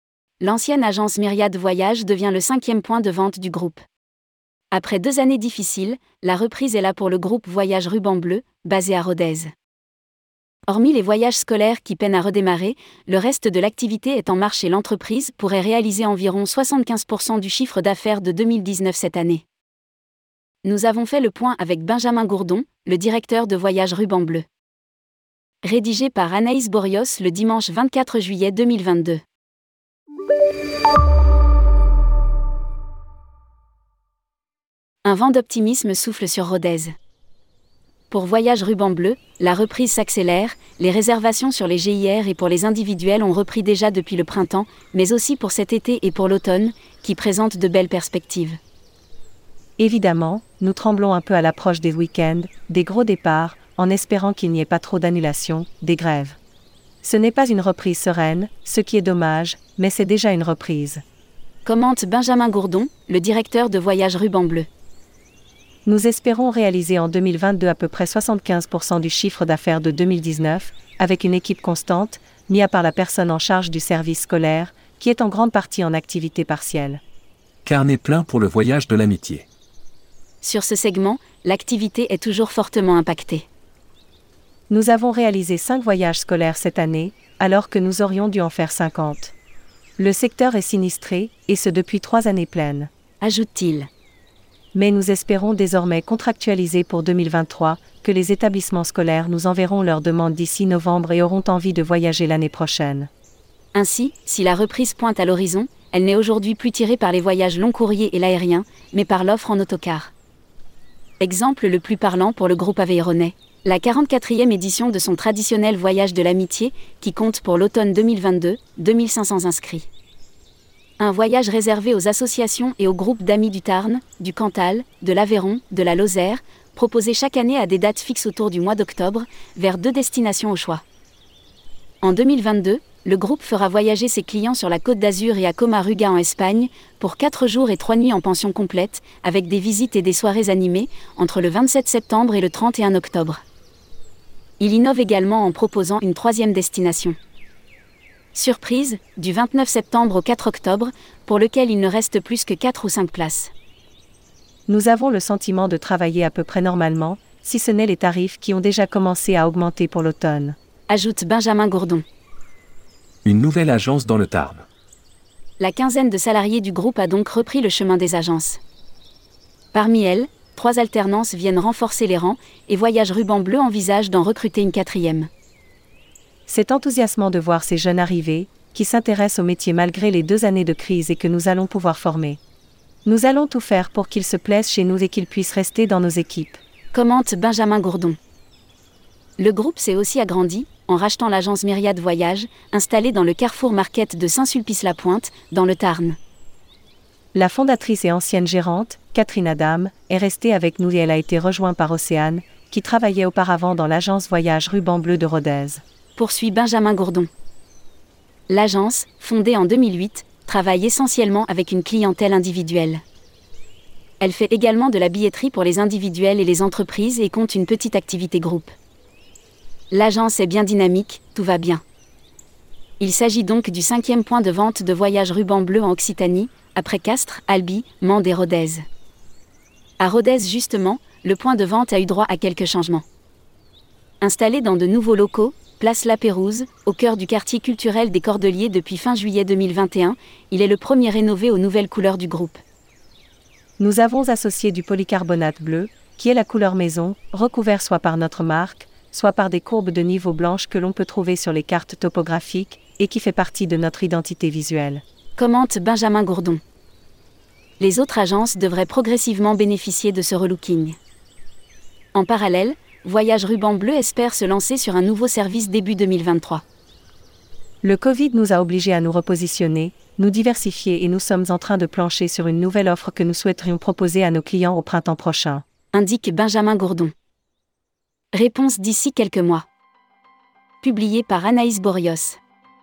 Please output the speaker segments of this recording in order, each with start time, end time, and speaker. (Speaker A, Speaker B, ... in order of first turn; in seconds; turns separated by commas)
Speaker A: 0.4-3.8, Speaker A: 4.7-9.5, Speaker A: 10.7-19.4, Speaker A: 20.6-24.4, Speaker A: 25.6-29.2, Speaker A: 35.0-36.9, Speaker A: 38.1-48.6, Speaker B: 49.8-56.4, Speaker B: 57.0-61.0, Speaker A: 61.6-64.7, Speaker B: 65.9-77.0, Speaker C: 77.7-79.5, Speaker A: 80.4-83.5, Speaker B: 84.7-89.3, Speaker B: 90.0-92.9, Speaker A: 93.2-93.9, Speaker B: 94.7-103.1, Speaker A: 103.7-110.1, Speaker A: 111.2-119.9, Speaker A: 121.0-130.8, Speaker A: 132.0-143.4, Speaker A: 144.6-147.2, Speaker A: 148.3-153.5, Speaker B: 154.7-160.6, Speaker A: 160.9-162.0, Speaker C: 163.2-164.7, Speaker A: 165.6-168.6, Speaker A: 169.7-175.3, Speaker B: 176.5-182.4, Speaker B: 183.1-186.6, Speaker A: 186.9-188.2, Speaker A: 189.4-196.2, Speaker B: 197.3-205.8, Speaker A: 206.2-207.3, Speaker A: 208.5-213.0, Speaker A: 214.2-218.8, Speaker A: 219.9-221.8, Speaker A: 223.0-228.8, Speaker A: 230.0-233.1, Speaker A: 234.2-242.6, Speaker B: 243.8-255.0, Speaker A: 255.4-256.6, Speaker A: 257.8-261.0, Speaker A: 262.1-266.6, Speaker B: 267.8-275.6, Speaker A: 275.9-277.1, Speaker A: 278.3-279.7, Speaker A: 280.8-282.4